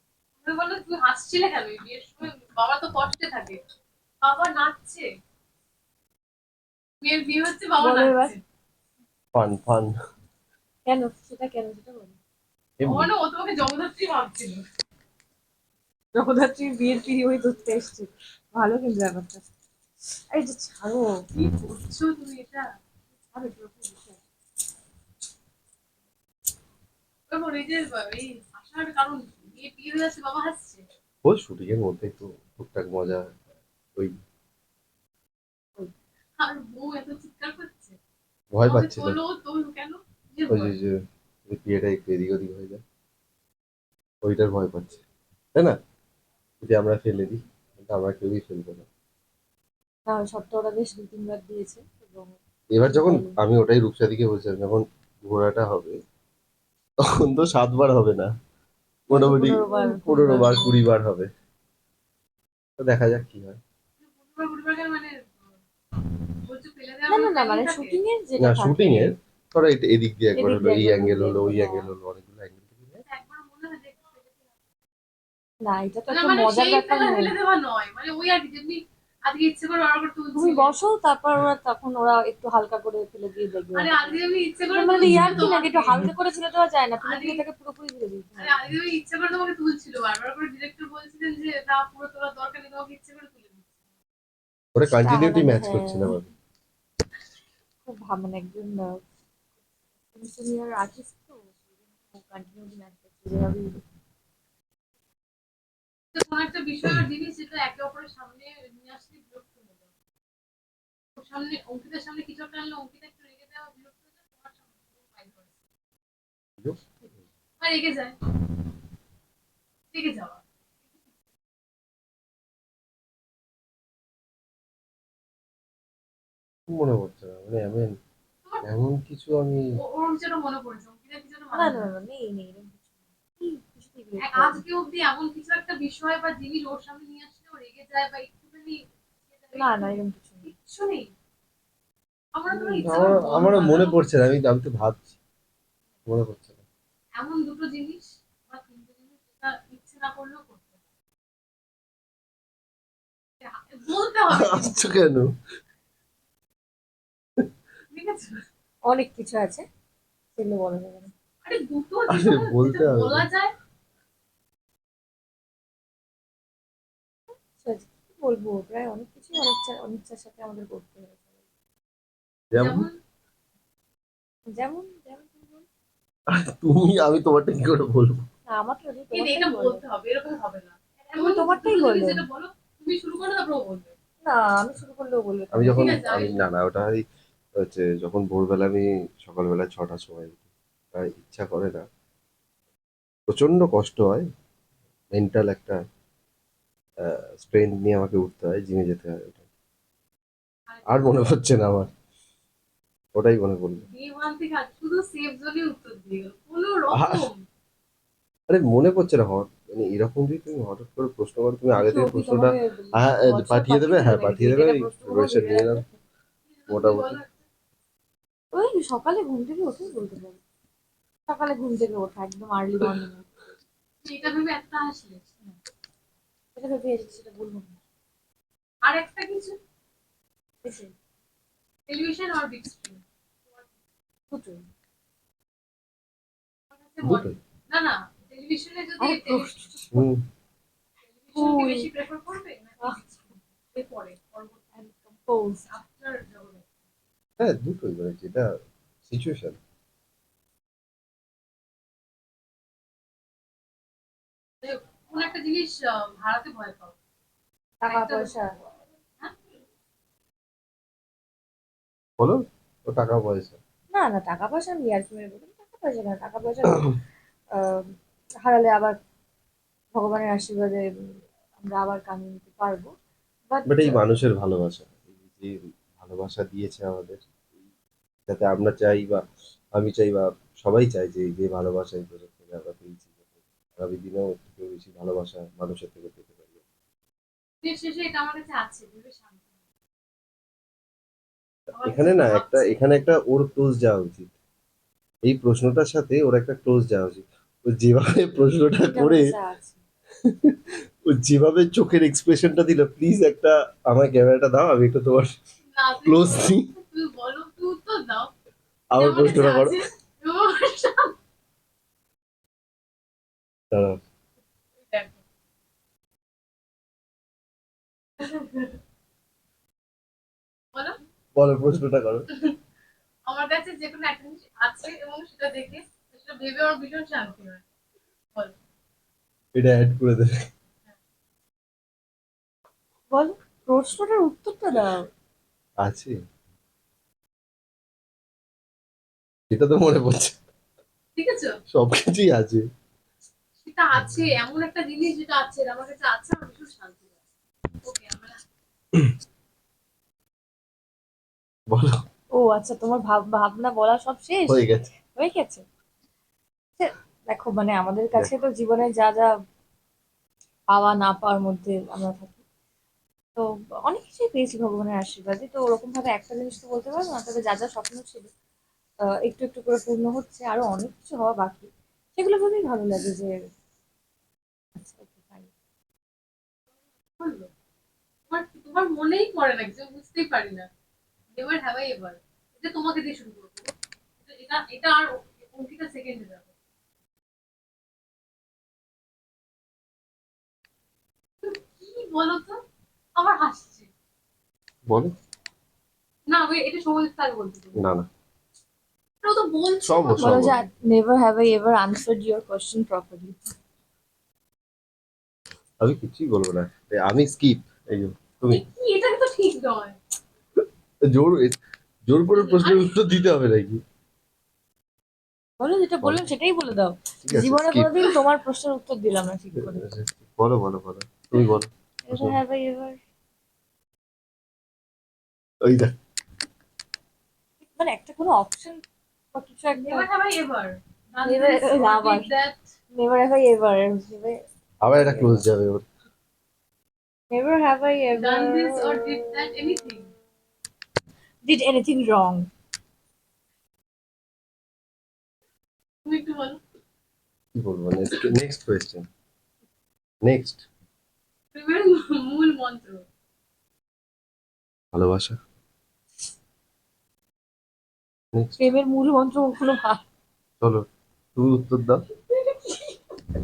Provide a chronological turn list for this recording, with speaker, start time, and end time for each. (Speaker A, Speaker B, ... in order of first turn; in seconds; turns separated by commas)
Speaker A: 0.4-3.6, Speaker A: 4.2-5.1, Speaker A: 7.0-8.4, Speaker B: 7.8-8.4, Speaker C: 9.3-9.9, Speaker B: 10.9-12.2, Speaker C: 12.8-13.1, Speaker A: 12.8-14.6, Speaker B: 16.1-19.4, Speaker B: 20.3-21.1, Speaker A: 21.3-22.6, Speaker B: 23.3-24.2, Speaker A: 27.3-30.8, Speaker C: 31.2-33.4, Speaker A: 36.4-38.0, Speaker C: 38.5-39.2, Speaker A: 38.6-40.7, Speaker C: 40.5-41.0, Speaker C: 41.5-42.8, Speaker C: 44.2-45.0, Speaker C: 46.6-48.9, Speaker B: 50.1-53.4, Speaker C: 52.7-56.0, Speaker C: 57.0-58.3, Speaker C: 59.1-61.3, Speaker B: 59.1-60.8, Speaker C: 62.8-63.6, Speaker A: 64.0-65.4, Speaker A: 66.5-68.0, Speaker B: 67.1-69.2, Speaker C: 68.4-73.0, Speaker B: 70.3-71.9, Speaker A: 73.1-74.5, Speaker B: 75.6-77.3, Speaker A: 76.1-80.8, Speaker B: 80.3-88.6, Speaker A: 83.7-86.1, Speaker A: 87.0-87.4, Speaker A: 88.4-93.7, Speaker C: 94.8-96.3, Speaker B: 94.9-96.2, Speaker B: 97.8-99.0, Speaker B: 100.1-103.8, Speaker A: 106.1-109.9, Speaker A: 111.2-115.5, Speaker A: 117.6-118.2, Speaker A: 119.9-120.5, Speaker C: 126.7-128.0, Speaker C: 128.6-129.7, Speaker A: 129.8-131.9, Speaker B: 131.5-132.9, Speaker B: 133.4-134.6, Speaker A: 134.2-141.1, Speaker B: 139.6-140.5, Speaker A: 142.3-144.0, Speaker C: 142.5-145.1, Speaker C: 146.1-146.6, Speaker A: 147.2-150.8, Speaker A: 153.4-155.0, Speaker C: 154.3-155.3, Speaker A: 157.9-158.4, Speaker B: 158.9-159.7, Speaker B: 160.3-161.1, Speaker A: 161.4-163.5, Speaker C: 162.1-163.2, Speaker B: 167.6-171.3, Speaker C: 172.5-172.9, Speaker A: 172.5-173.0, Speaker B: 174.5-175.7, Speaker C: 176.3-178.2, Speaker B: 178.5-179.8, Speaker A: 179.1-183.9, Speaker B: 181.2-182.2, Speaker B: 184.2-186.0, Speaker C: 185.5-187.0, Speaker A: 185.7-186.4, Speaker C: 187.6-191.8, Speaker C: 193.3-194.3, Speaker C: 195.1-195.8, Speaker C: 197.0-199.4, Speaker A: 200.7-201.2, Speaker C: 200.9-201.9, Speaker C: 203.1-203.8, Speaker A: 203.8-207.4, Speaker C: 206.9-207.3, Speaker C: 208.5-215.8, Speaker B: 211.7-215.9, Speaker A: 216.5-217.4, Speaker C: 216.7-217.2, Speaker B: 218.5-220.4, Speaker B: 221.3-223.3, Speaker A: 224.0-225.2, Speaker B: 226.6-227.8, Speaker A: 228.8-229.6, Speaker B: 230.6-230.9, Speaker A: 231.9-233.7, Speaker B: 234.3-234.6, Speaker A: 236.7-239.6, Speaker C: 237.0-237.4, Speaker B: 239.0-240.1, Speaker C: 239.9-240.2, Speaker A: 241.0-244.8, Speaker B: 241.3-241.9, Speaker B: 244.8-245.7, Speaker A: 245.7-246.7, Speaker C: 247.4-248.5, Speaker C: 249.1-249.6, Speaker A: 254.6-257.0, Speaker B: 257.8-258.5, Speaker A: 257.9-258.4, Speaker C: 262.2-263.6, Speaker B: 263.9-266.9, Speaker B: 267.6-267.9, Speaker B: 268.4-269.0, Speaker B: 269.9-270.8, Speaker B: 271.6-272.9, Speaker B: 273.5-274.0, Speaker C: 273.7-277.2, Speaker C: 278.3-279.2, Speaker C: 279.8-283.2, Speaker C: 283.8-286.6, Speaker A: 287.6-289.5, Speaker A: 291.8-292.8, Speaker C: 291.8-294.3, Speaker C: 295.2-299.2, Speaker B: 298.9-299.8, Speaker C: 300.2-305.3, Speaker A: 305.7-308.3, Speaker C: 306.1-306.7, Speaker C: 308.9-309.8, Speaker A: 309.0-311.2, Speaker C: 313.7-314.0, Speaker A: 314.8-315.2, Speaker A: 318.2-318.8, Speaker C: 321.4-322.3, Speaker A: 323.3-327.7, Speaker C: 329.5-330.4, Speaker B: 333.1-335.1, Speaker C: 335.8-336.1, Speaker C: 339.5-340.4, Speaker A: 341.1-341.6, Speaker C: 341.7-342.6, Speaker A: 343.6-347.2, Speaker A: 347.8-348.4, Speaker C: 351.7-352.0, Speaker B: 352.4-355.6, Speaker C: 354.5-354.9, Speaker B: 356.8-359.3, Speaker B: 360.7-362.4, Speaker B: 363.4-368.3, Speaker B: 369.2-373.3, Speaker B: 374.8-375.5, Speaker A: 377.2-377.5, Speaker A: 378.3-380.7, Speaker A: 381.3-386.5, Speaker A: 391.4-392.6, Speaker A: 393.2-393.9, Speaker C: 394.9-395.1, Speaker A: 396.3-397.9, Speaker C: 397.8-398.1, Speaker A: 399.2-400.6, Speaker C: 399.8-400.6, Speaker B: 400.2-403.5, Speaker C: 405.8-408.6, Speaker A: 408.5-410.0, Speaker C: 411.1-413.8, Speaker A: 412.3-413.1, Speaker B: 415.6-419.9, Speaker C: 417.3-417.9, Speaker C: 419.6-422.4, Speaker B: 422.1-423.0, Speaker C: 425.6-425.9, Speaker B: 427.8-428.8, Speaker B: 429.3-430.1, Speaker A: 429.8-432.7, Speaker B: 431.2-432.3, Speaker B: 432.9-435.4, Speaker C: 434.8-435.9, Speaker B: 437.3-439.7, Speaker A: 438.1-440.1, Speaker B: 441.4-442.5, Speaker A: 446.1-446.6, Speaker C: 447.6-449.1, Speaker C: 450.2-450.7, Speaker A: 451.5-453.1, Speaker C: 454.9-455.4, Speaker B: 458.6-460.0, Speaker C: 460.6-462.1, Speaker A: 462.3-463.0